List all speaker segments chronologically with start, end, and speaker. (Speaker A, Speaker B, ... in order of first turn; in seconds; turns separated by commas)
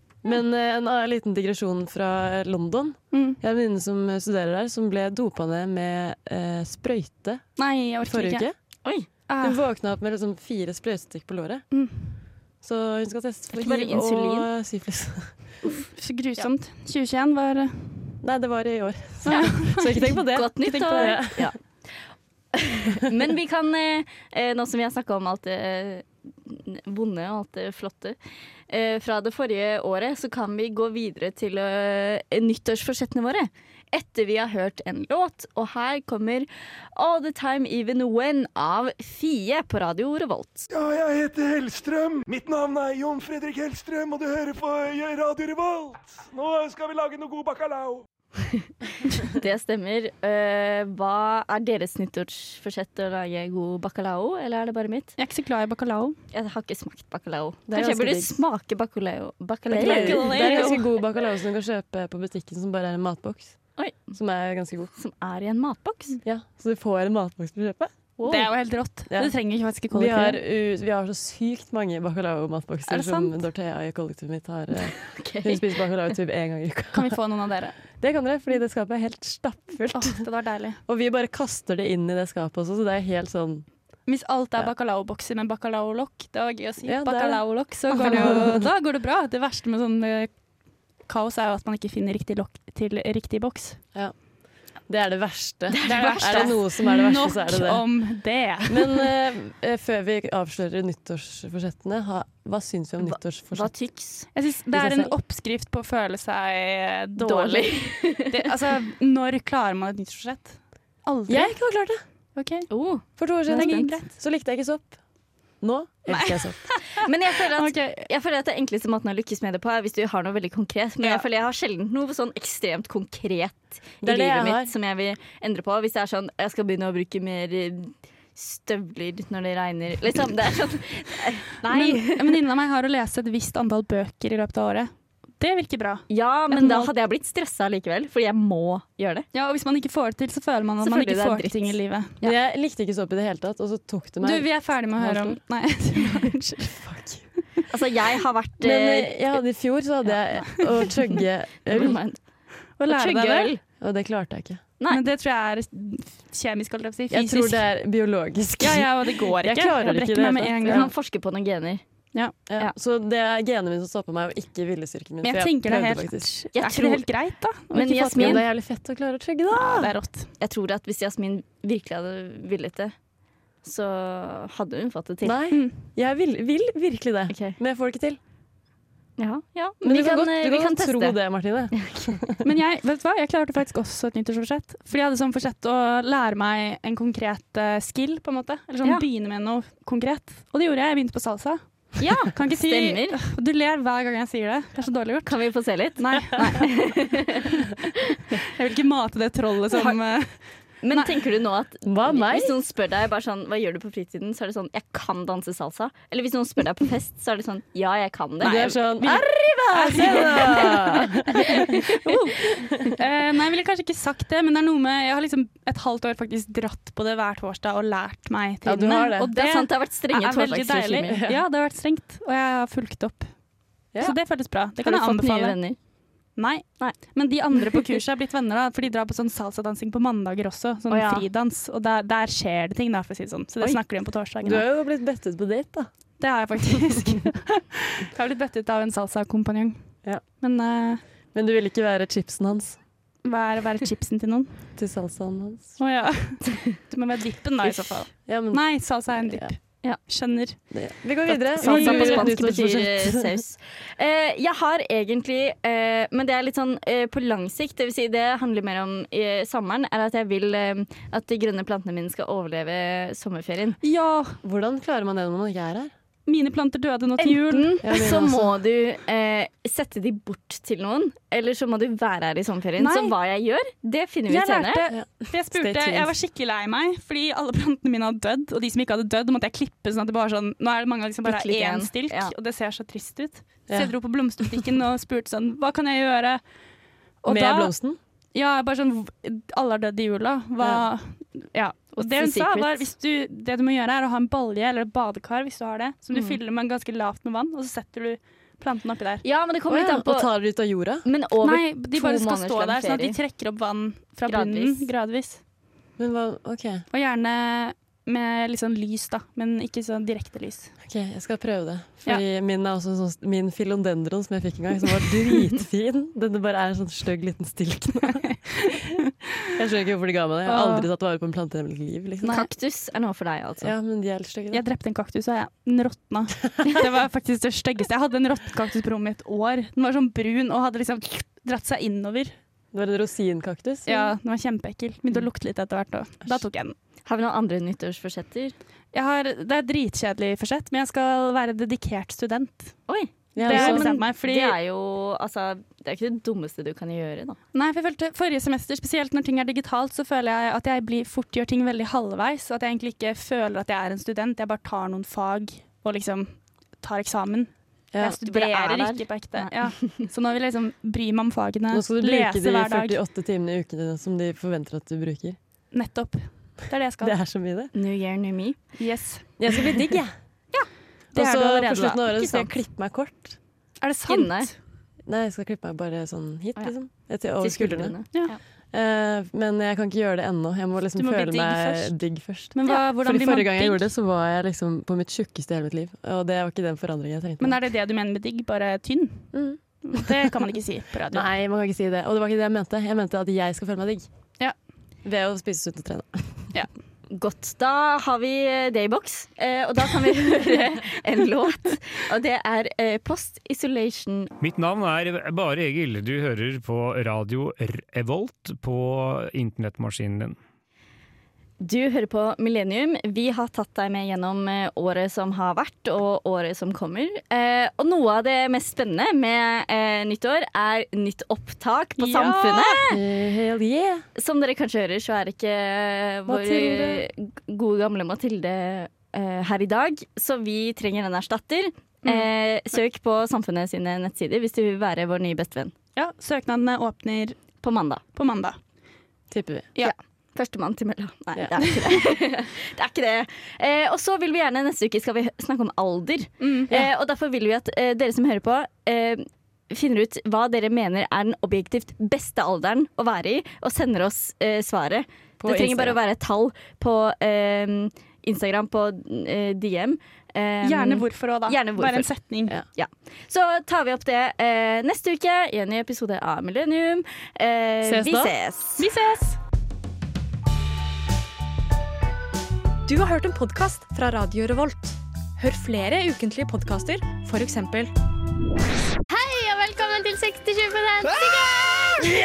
Speaker A: 0.2-7.4, Speaker B: 3.1-3.4, Speaker B: 7.6-8.4, Speaker A: 8.1-8.5, Speaker B: 9.3-9.6, Speaker A: 9.4-11.6, Speaker B: 11.7-12.0, Speaker A: 12.6-15.4, Speaker C: 13.5-14.5, Speaker B: 15.9-18.1, Speaker A: 18.2-21.5, Speaker C: 19.3-19.7, Speaker B: 19.3-19.9, Speaker C: 20.3-21.6, Speaker B: 20.6-21.2, Speaker C: 22.5-28.2, Speaker C: 28.7-40.7, Speaker D: 40.7-48.0, Speaker C: 49.2-55.1, Speaker B: 55.2-56.1, Speaker C: 56.3-60.7, Speaker A: 57.7-58.4, Speaker A: 59.7-63.6, Speaker B: 59.8-60.9, Speaker C: 63.8-64.1, Speaker A: 64.1-64.9, Speaker C: 65.0-66.2, Speaker A: 66.2-67.9, Speaker C: 68.2-68.5, Speaker B: 68.3-70.4, Speaker A: 69.1-69.3, Speaker A: 69.9-77.2, Speaker B: 72.9-73.3, Speaker C: 75.1-75.6, Speaker B: 76.9-77.8, Speaker A: 78.0-80.2, Speaker B: 79.9-80.8, Speaker A: 80.9-83.7, Speaker B: 84.1-90.3, Speaker A: 86.8-88.7, Speaker C: 87.9-88.3, Speaker B: 91.1-93.8, Speaker A: 94.9-97.8, Speaker C: 95.7-96.5, Speaker B: 95.8-99.1, Speaker A: 98.7-103.7, Speaker C: 103.0-104.3, Speaker B: 104.3-111.6, Speaker A: 104.7-105.1, Speaker C: 107.2-108.4, Speaker A: 111.3-112.0, Speaker B: 112.3-112.7, Speaker C: 112.7-113.9, Speaker A: 113.2-115.0, Speaker B: 113.5-114.1, Speaker A: 115.6-116.6, Speaker B: 116.1-118.1, Speaker C: 117.0-132.4, Speaker A: 124.0-124.7, Speaker B: 131.7-136.9, Speaker C: 136.1-139.2, Speaker B: 139.3-142.2, Speaker C: 140.8-141.8, Speaker A: 142.2-145.4, Speaker B: 144.2-146.9, Speaker A: 146.8-147.2, Speaker C: 147.7-149.4, Speaker A: 148.6-152.0, Speaker C: 150.1-151.2, Speaker C: 151.7-152.2, Speaker B: 152.8-153.5, Speaker C: 152.8-153.6, Speaker A: 153.8-154.6, Speaker B: 154.9-157.6, Speaker A: 157.1-160.9, Speaker B: 158.6-160.9, Speaker C: 160.6-161.8, Speaker A: 162.5-166.3, Speaker B: 165.2-168.5, Speaker C: 166.5-167.1, Speaker C: 167.7-168.4, Speaker A: 168.1-169.9, Speaker B: 169.5-170.3, Speaker C: 170.4-172.9, Speaker C: 173.6-175.4, Speaker A: 175.2-178.2, Speaker B: 175.5-175.8, Speaker C: 177.3-177.6, Speaker C: 179.2-181.2, Speaker A: 179.8-182.4, Speaker C: 181.7-182.1, Speaker B: 182.4-191.6, Speaker C: 192.0-193.2, Speaker B: 192.3-195.4, Speaker C: 195.2-197.5, Speaker B: 195.9-197.7, Speaker B: 198.5-200.4, Speaker C: 200.8-211.1, Speaker A: 201.8-202.5, Speaker A: 208.4-212.9, Speaker B: 209.7-210.9, Speaker C: 211.7-212.2, Speaker B: 212.9-223.3, Speaker A: 218.6-219.3, Speaker C: 219.3-221.2, Speaker A: 221.1-221.4, Speaker B: 224.0-225.6, Speaker C: 224.8-225.8, Speaker B: 226.4-234.6, Speaker C: 227.6-227.8, Speaker C: 230.9-231.2, Speaker A: 234.4-235.9, Speaker B: 236.2-239.8, Speaker A: 236.7-237.2, Speaker B: 240.4-241.0, Speaker A: 241.3-242.8, Speaker B: 243.2-244.5, Speaker A: 244.8-245.8, Speaker B: 245.8-250.6, Speaker A: 248.2-249.5, Speaker A: 250.7-253.3, Speaker B: 251.3-252.3, Speaker C: 251.6-263.8, Speaker B: 263.8-264.4, Speaker A: 264.4-265.9, Speaker B: 266.3-267.9, Speaker C: 267.2-274.9, Speaker A: 267.8-268.5, Speaker B: 272.8-273.1, Speaker B: 274.3-286.4, Speaker A: 274.9-276.1, Speaker C: 281.2-282.3, Speaker B: 287.2-287.7, Speaker A: 287.2-288.0, Speaker B: 288.4-299.2, Speaker A: 290.6-290.9, Speaker C: 291.9-292.9, Speaker C: 296.1-296.4, Speaker C: 299.2-300.3, Speaker A: 299.7-301.1, Speaker C: 301.1-303.2, Speaker B: 301.4-305.4, Speaker C: 304.3-304.9, Speaker A: 306.0-306.9, Speaker B: 306.9-310.7, Speaker A: 310.8-318.8, Speaker B: 318.0-319.0, Speaker A: 319.5-322.4, Speaker B: 320.4-320.9, Speaker C: 322.2-323.7, Speaker A: 323.6-324.6, Speaker B: 324.5-332.4, Speaker A: 332.7-334.1, Speaker B: 333.9-336.7, Speaker C: 337.1-338.6, Speaker B: 338.9-342.8, Speaker C: 342.9-347.4, Speaker A: 343.4-343.9, Speaker B: 343.4-344.6, Speaker B: 347.5-363.0, Speaker C: 358.2-359.5, Speaker A: 361.7-365.4, Speaker B: 365.7-367.1, Speaker A: 367.0-367.7, Speaker C: 367.7-368.7, Speaker B: 368.8-369.3, Speaker A: 369.4-370.1, Speaker B: 371.1-372.5, Speaker A: 371.1-373.4, Speaker B: 373.8-374.6, Speaker C: 374.1-374.5, Speaker A: 375.1-378.0, Speaker C: 377.4-378.4, Speaker A: 378.7-387.6, Speaker B: 380.9-381.9, Speaker B: 382.5-383.9, Speaker B: 387.4-389.3, Speaker A: 389.3-390.2, Speaker B: 389.8-391.2, Speaker A: 391.1-394.1, Speaker A: 395.1-396.5, Speaker C: 397.1-404.3, Speaker E: 404.4-410.4, Speaker C: 411.6-422.9, Speaker B: 422.0-422.8, Speaker A: 422.9-424.1, Speaker C: 424.2-435.7, Speaker A: 426.3-427.1, Speaker B: 435.9-437.4, Speaker C: 437.6-438.0, Speaker B: 438.1-438.6, Speaker A: 439.3-439.7, Speaker C: 439.8-462.1, Speaker B: 446.4-446.7, Speaker A: 455.4-456.0, Speaker B: 460.6-462.6, Speaker C: 462.7-468.9, Speaker B: 468.1-469.4, Speaker F: 472.9-477.9, Speaker G: 479.1-481.5